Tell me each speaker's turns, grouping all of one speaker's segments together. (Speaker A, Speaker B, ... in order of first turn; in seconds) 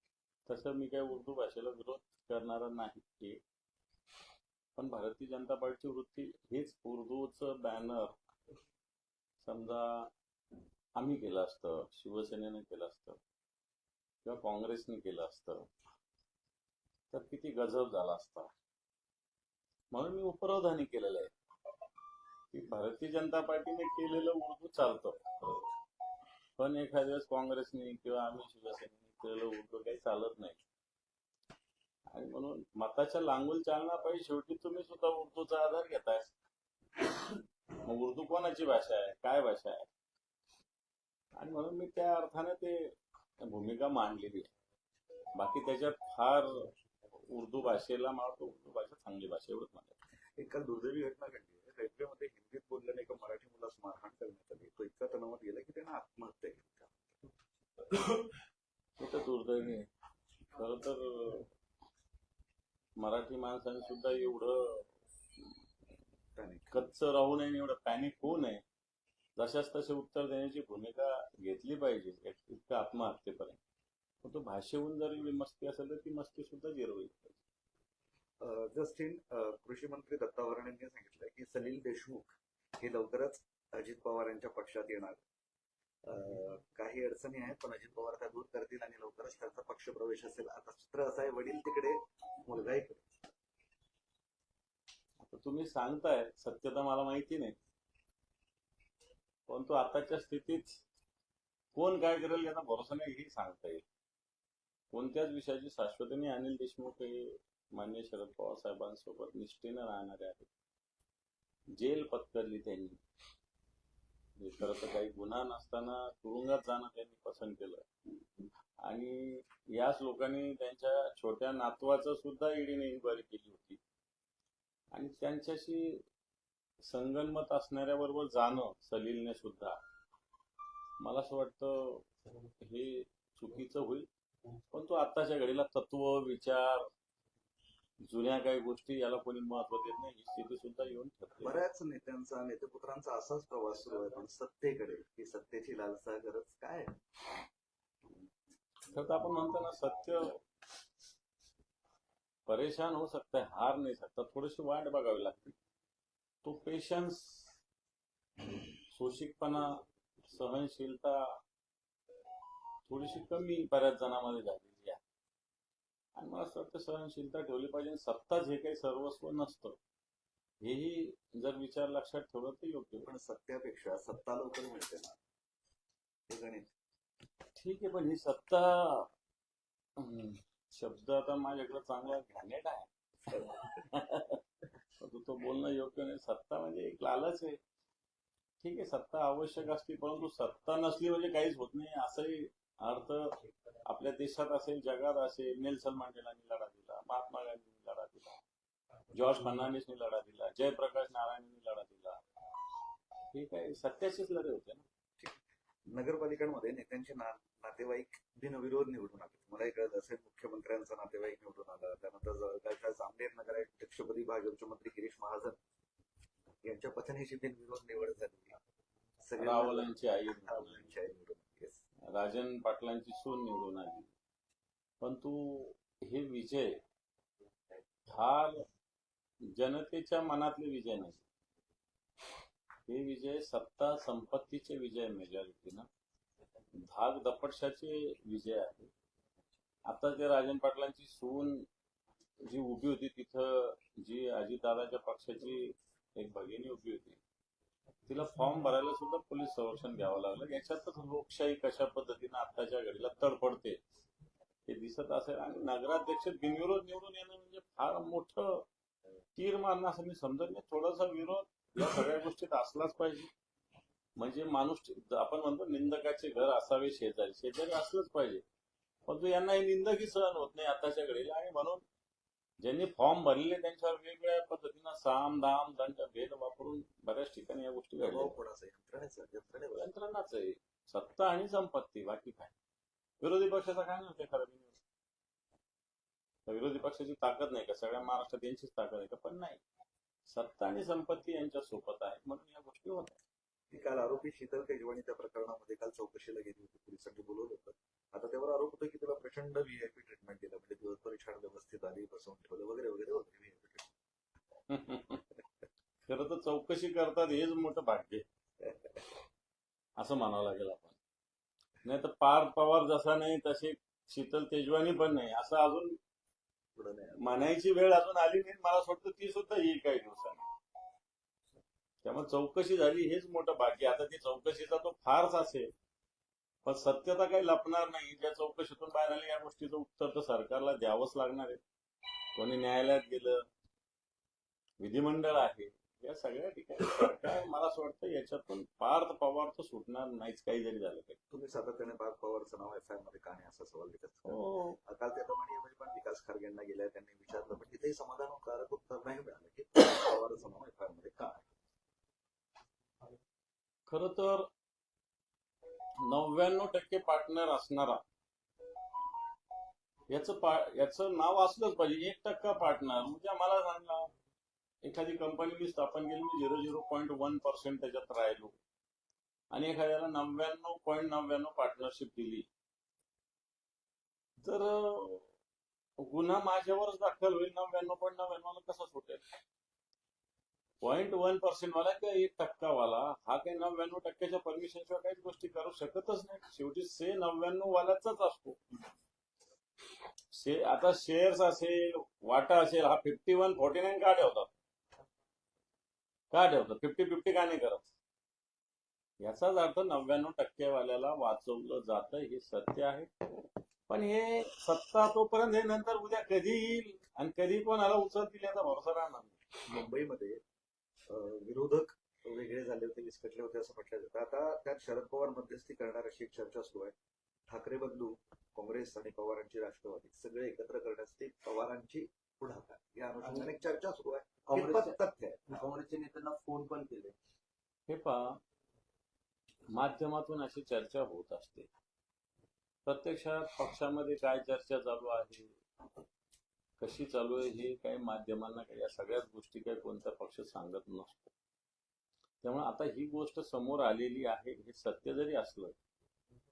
Speaker A: 0.5-3.4, 4.8-8.2, 9.4-10.1, 11.0-13.2, 14.2-15.7, 17.1-18.5, 19.9-21.3, 22.5-25.7, 26.6-30.6, 32.1-36.3, 37.8-39.9, 41.4-44.5, 45.3-46.5, 47.3-49.9, 59.0-59.9, 60.5-61.5, 63.0-64.9, 66.7-68.6, 69.4-73.6, 74.2-77.4, 95.2-97.5, 99.5-100.8, 101.7-103.8, 104.9-110.5, 111.7-113.0, 114.4-117.8, 118.8-123.8, 124.9-126.0, 126.9-129.8, 131.0-132.1, 132.6-134.1, 134.7-136.8, 138.0-141.6, 148.9-150.4, 152.5-155.6, 156.4-157.6, 158.9-159.7, 160.3-161.2, 162.9-165.0, 166.2-169.8, 170.6-173.1, 177.5-179.1, 180.0-182.9, 183.5-184.4, 185.0-187.6, 188.6-193.3, 193.8-198.4, 199.1-202.2, 203.3-204.8, 219.4-220.9, 222.1-224.1, 225.0-226.7, 228.1-228.6, 229.5-231.2, 232.9-235.9, 236.8-238.9, 239.9-241.7, 242.4-247.2, 248.1-253.8, 254.7-258.7, 259.4-263.3, 264.2-268.4, 269.1-271.8, 272.6-278.3, 279.8-282.5, 283.2-284.8, 286.5-289.6, 290.3-293.2, 304.7-305.2, 306.1-308.2, 310.0-311.0, 311.9-316.0, 317.2-320.4, 322.0-325.7, 326.7-331.6, 332.4-333.4, 334.8-341.2, 344.3-344.8, 353.9-354.5, 356.1-358.0, 360.1-364.1, 364.8-368.6, 369.5-372.5, 374.4-375.3, 376.0-379.2, 380.8-388.6, 390.3-394.5, 396.3-397.9, 399.2-403.1, 403.9-409.4, 427.9-428.2, 429.7-431.7, 432.9-435.6, 436.8-441.3, 442.4-445.8
Speaker B: 50.4-57.1, 66.3-66.8, 78.4-85.2, 86.0-93.0, 141.4-146.9, 173.0-175.2, 176.3-176.7, 183.3-183.7, 205.9-215.6, 216.6-218.5, 219.2-221.8, 278.0-279.9, 293.7-303.9, 308.6-308.9, 316.8-317.5, 341.3-351.4, 409.7-410.4, 411.1-416.9, 417.5-425.6
Speaker C: 423.2-423.5, 424.5-425.0, 425.5-427.1